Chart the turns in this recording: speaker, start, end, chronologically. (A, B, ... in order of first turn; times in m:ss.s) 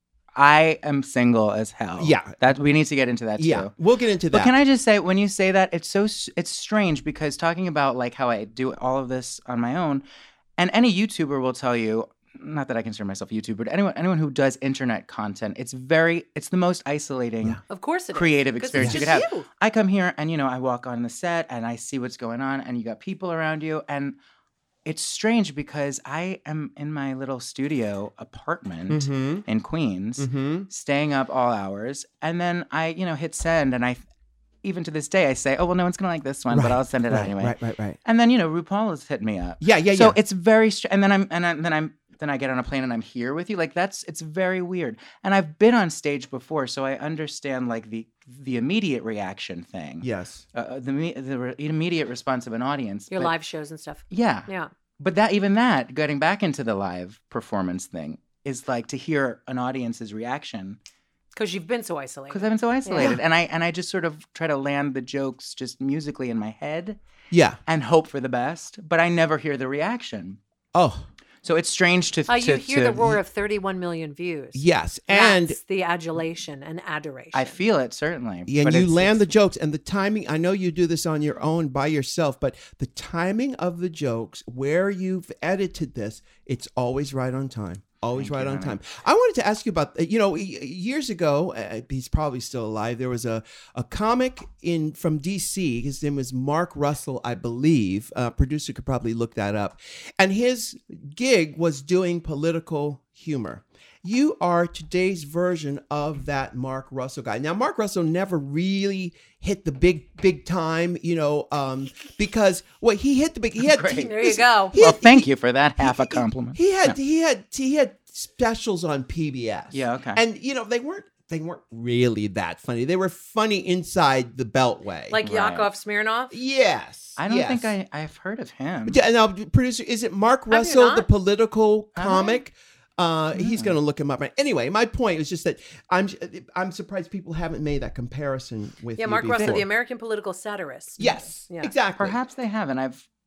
0:00.3-0:03.7 A
0:02.0-0:02.4 B
0:03.4-0:04.5 B
0:04.3-0:10.0 A
0:10.6-0:17.6 A
0:17.7-0:19.4 C
0:18.1-0:24.2 A
0:18.8-0:19.2 B
0:24.8-0:34.0 A
0:28.9-0:29.4 B
0:30.2-0:30.7 B
0:34.6-0:53.3 A
0:36.5-0:38.0 B
0:39.6-0:40.2 B
0:50.0-0:50.4 B
0:53.1-0:54.7 C
0:54.1-1:00.8 A
1:01.3-1:03.2 C
1:02.3-1:07.0 A
1:07.3-1:07.6 B
1:07.7-1:10.4 A
1:10.7-1:11.1 B
1:11.4-1:13.0 A
1:12.3-1:17.6 C
1:14.5-1:15.6 B
1:17.3-1:19.3 A
1:18.5-1:55.3 B
1:28.1-1:28.8 A
1:53.6-1:57.0 A
1:53.9-1:54.8 C
1:55.8-2:05.2 B
1:59.7-2:00.2 A
2:05.1-2:06.3 C
2:05.2-2:05.7 A
2:06.3-2:07.7 B
2:07.2-2:09.0 A
2:08.9-2:19.6 B
2:10.5-2:11.1 C
2:11.9-2:12.4 A
2:13.3-2:13.7 A
2:19.0-2:21.7 C
2:21.0-2:22.2 B
2:22.0-2:23.0 A